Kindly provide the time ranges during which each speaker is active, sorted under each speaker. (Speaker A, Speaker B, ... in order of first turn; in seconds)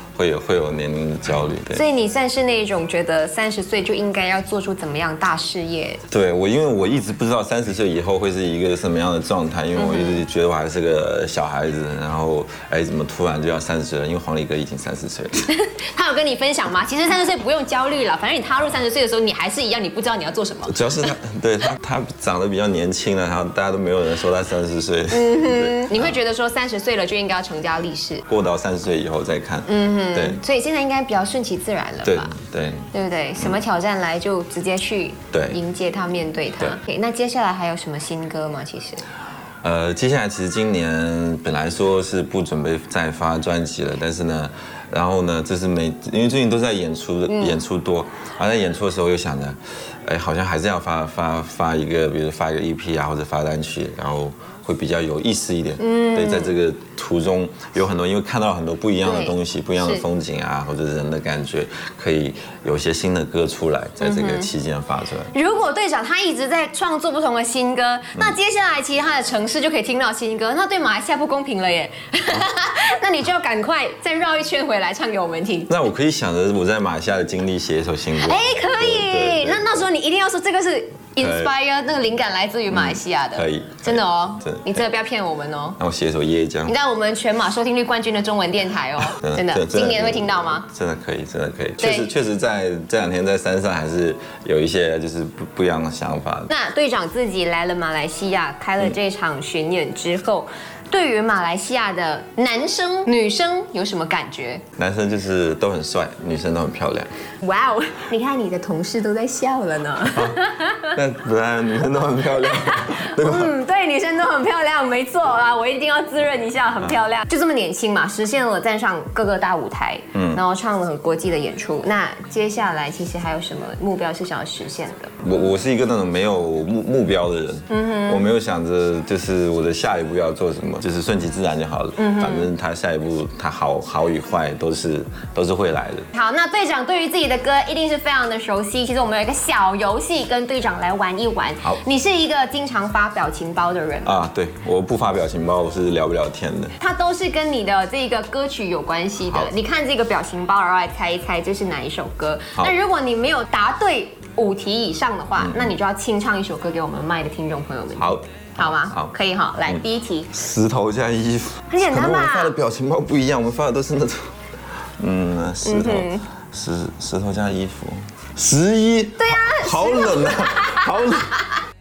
Speaker A: 0.2-1.9, 6.1-15.5, 20.7-26.2, 28.3-30.4, 32.0-33.6, 35.3-35.6, 39.6-65.3, 75.7-79.7, 81.2-81.5, 82.7-84.8, 85.8-86.8, 89.1-96.5, 104.8-107.1, 110.1-113.5, 120.1-120.4, 125.2-136.1, 144.0-146.8, 155.4-155.7, 158.0-159.1, 159.7-164.3, 165.0-171.4
Speaker B: 1.7-6.0, 9.8-10.2, 15.5-20.8, 25.1-28.2, 29.7-32.4, 32.9-39.0, 47.3-47.6, 55.8-56.5, 59.0-60.0, 64.0-64.5, 65.3-75.7, 78.2-85.8, 86.7-90.7, 91.8-92.1, 96.5-104.6, 107.4-111.0, 112.4-125.1, 127.7-128.2, 132.0-132.5, 136.1-144.2, 146.8-160.3, 161.7-162.5, 165.7-166.3, 169.2-170.9